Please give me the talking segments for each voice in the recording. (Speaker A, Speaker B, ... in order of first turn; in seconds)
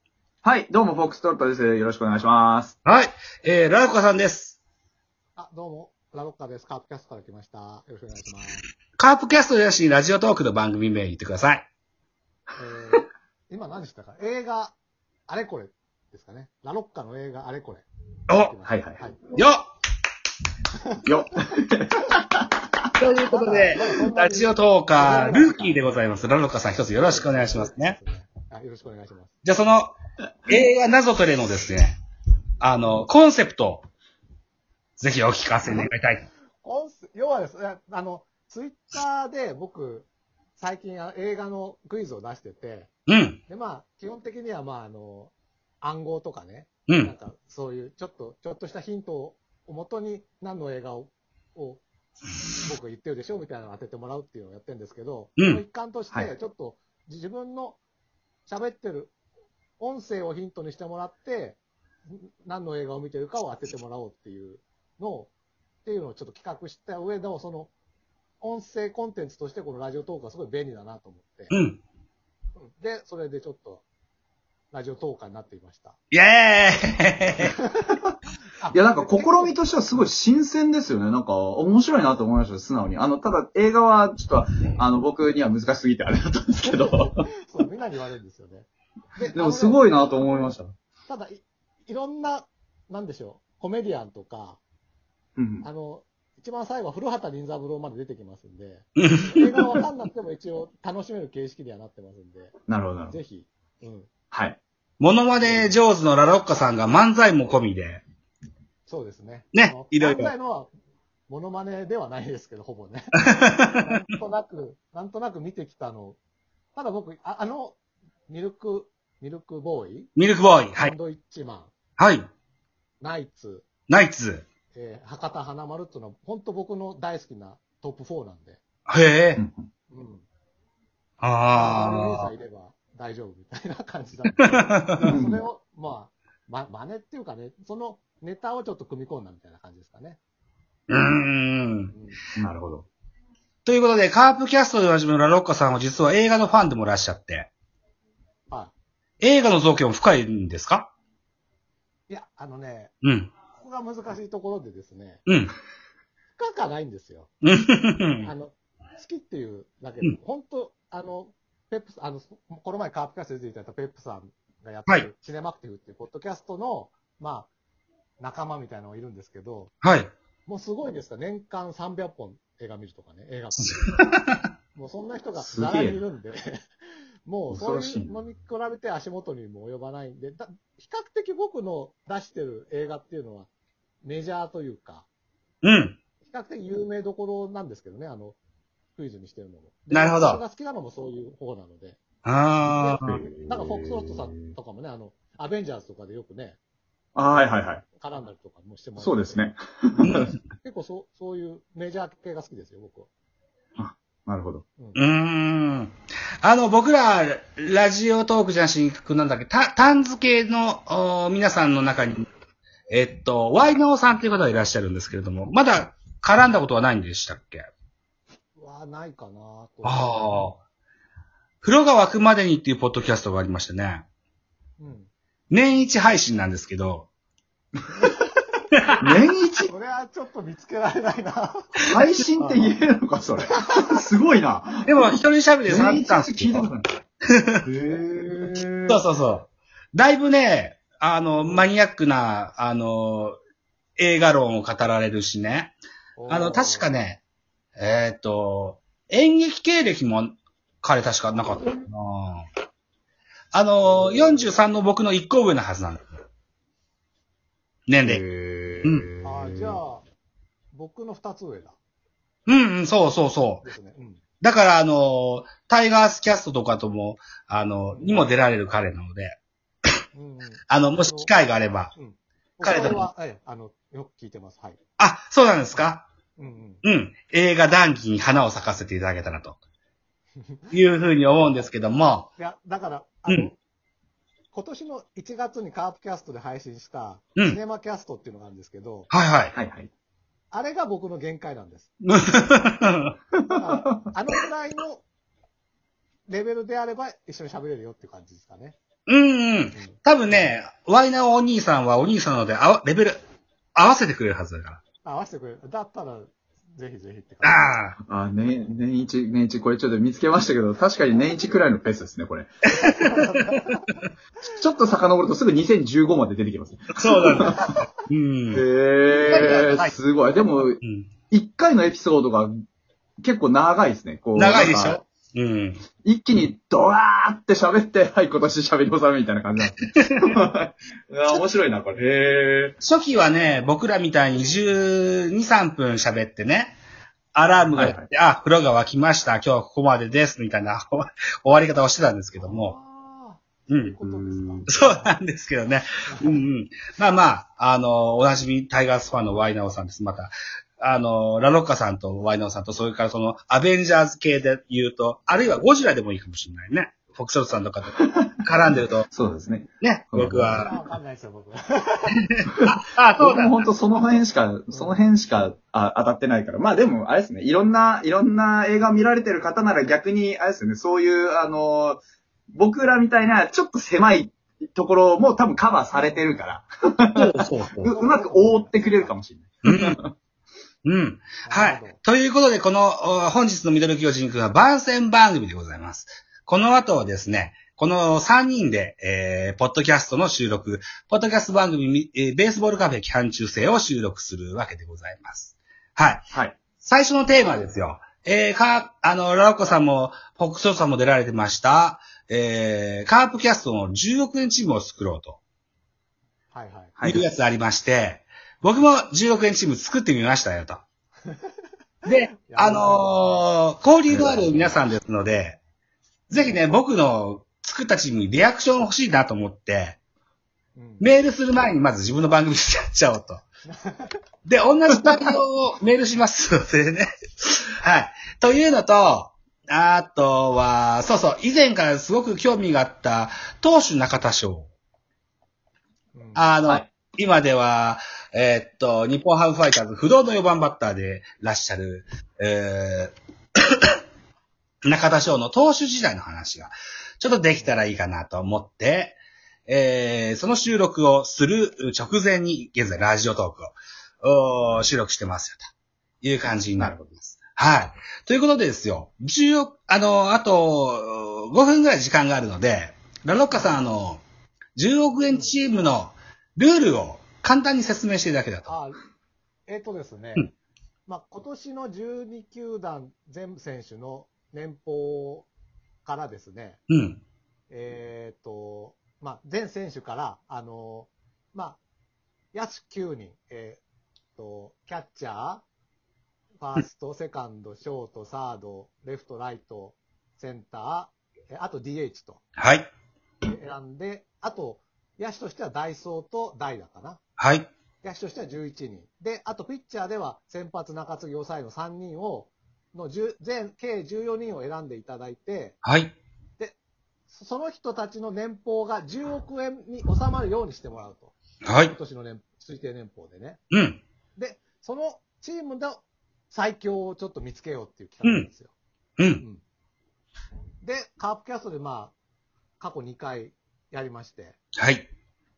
Speaker A: 0.4-2.7, 18.6-19.0, 21.0-22.5, 78.7-87.3, 89.3-90.7, 95.4-95.7, 102.7-103.2, 104.3-104.6, 129.3-129.7, 135.0-135.4, 142.4-142.9, 175.4-176.0, 177.5-178.2, 193.0-194.5, 197.1-197.8, 199.0-200.3, 203.8-204.6, 229.0-229.7, 231.8-235.1, 235.7-236.9, 237.6-239.0, 258.0-259.8, 289.5-289.9, 293.3-293.6, 308.1-312.6, 314.5-317.7, 318.5-322.5, 323.2-325.0, 326.0-332.8, 337.8-338.0, 344.0-344.7, 359.1-360.6, 363.2-380.1, 396.3-396.6, 414.1-414.4, 456.8-457.1
Speaker B: 2.8-4.6, 9.0-11.7, 18.3-18.5, 19.3-19.7, 23.0-27.9, 29.4-29.9, 30.5-31.9, 32.6-33.9, 35.0-36.2, 43.1-43.4, 71.5-71.8, 76.1-77.5, 99.0-99.4, 105.0-108.0, 109.5-110.3, 113.4-113.7, 120.2-120.9, 122.0-122.2, 123.9-124.4, 128.9-129.4, 131.2-132.3, 134.6-134.8, 140.9-141.9, 143.6-147.5, 149.2-150.9, 153.0-153.3, 155.3-155.5, 157.4-158.3, 169.8-170.1, 185.6-186.0, 189.9-190.4, 192.2-193.2, 200.0-200.3, 204.9-212.2, 212.9-217.7, 219.8-220.6, 221.6-224.0, 225.5-227.1, 234.8-236.7, 238.9-243.3, 244.0-245.8, 246.3-247.2, 247.8-252.4, 253.5-256.0, 257.9-258.2, 258.8-259.1, 262.5-263.7, 264.4-269.4, 270.7-271.9, 272.6-273.0, 275.0-276.0, 276.8-279.6, 280.7-282.3, 289.1-289.5, 292.1-293.1, 299.1-303.2, 303.7-304.8, 307.4-307.9, 312.7-313.6, 316.9-318.6, 319.3-319.9, 320.8-321.1, 324.3-325.8, 332.8-336.8, 337.3-342.7, 343.7-343.9, 344.7-359.1, 359.8-360.7, 362.6-363.5, 377.1-377.9, 379.6-380.0, 380.8-396.2, 396.8-405.4, 407.0-410.8, 412.0-415.6, 416.3-420.0, 421.0-423.4, 424.4-434.7, 436.4-443.1, 444.8-455.7, 456.2-464.2, 464.8-468.8, 476.9-477.2, 492.6-492.9, 497.4-497.7, 505.8-506.1, 511.6-511.9, 513.7-514.0, 519.2-519.4, 524.8-525.1
Speaker C: 5.3-8.6, 12.6-14.8, 15.3-19.3, 23.2-25.9, 26.9-29.4, 36.6-42.9, 43.5-51.8, 52.6-57.8, 58.5-59.1, 59.8-65.3, 65.8-67.7, 68.4-71.5, 72.5-73.8, 74.7-76.0, 77.5-77.8, 78.6-79.6, 86.6-89.8, 91.0-94.6, 95.6-102.5, 103.0-104.1, 105.4-105.8, 108.8-110.7, 111.3-116.2, 116.7-117.8, 118.3-120.1, 120.7-121.7, 123.0-123.7, 124.7-128.6, 129.9-130.2, 131.5-140.2, 141.9-142.2, 148.5-148.7, 152.1-152.9, 153.5-155.2, 156.4-157.3, 158.2-167.5, 168.2-169.7, 170.4-174.0, 174.7-176.6, 177.2-183.5, 184.0-185.1, 186.2-188.4, 188.9-192.0, 192.6-196.6, 197.9-199.5, 200.6-203.1, 204.8-205.0, 218.6-220.3, 224.8-225.1, 227.9-228.2, 229.7-232.7, 246.2-246.9, 251.4-251.6, 259.2-260.0, 260.7-261.8, 263.6-264.2, 267.9-268.3, 270.1-271.3, 271.9-274.8, 275.7-276.8, 280.4-280.7, 282.4-283.6, 284.5-289.1, 290.5-291.9, 293.5-295.0, 296.3-298.8, 299.7-300.5, 305.0-307.8, 312.8-313.8, 319.3-319.9, 342.4-345.0, 346.1-346.4, 360.5-362.3, 364.7-365.0, 377.8-379.1, 381.4-382.0, 406.5-407.0, 411.2-411.5, 412.1-413.2, 416.3-416.6, 420.7-421.1, 423.6-424.1, 436.1-436.5, 463.5-463.8, 465.3-465.6, 468.6-469.0, 469.7-470.5, 471.1-475.5, 476.0-476.8, 477.7-481.8, 482.5-483.8, 484.4-485.6, 486.6-492.4, 493.4-497.2, 498.0-505.8, 507.3-513.6, 514.4-518.7, 520.8-522.1, 522.8-524.6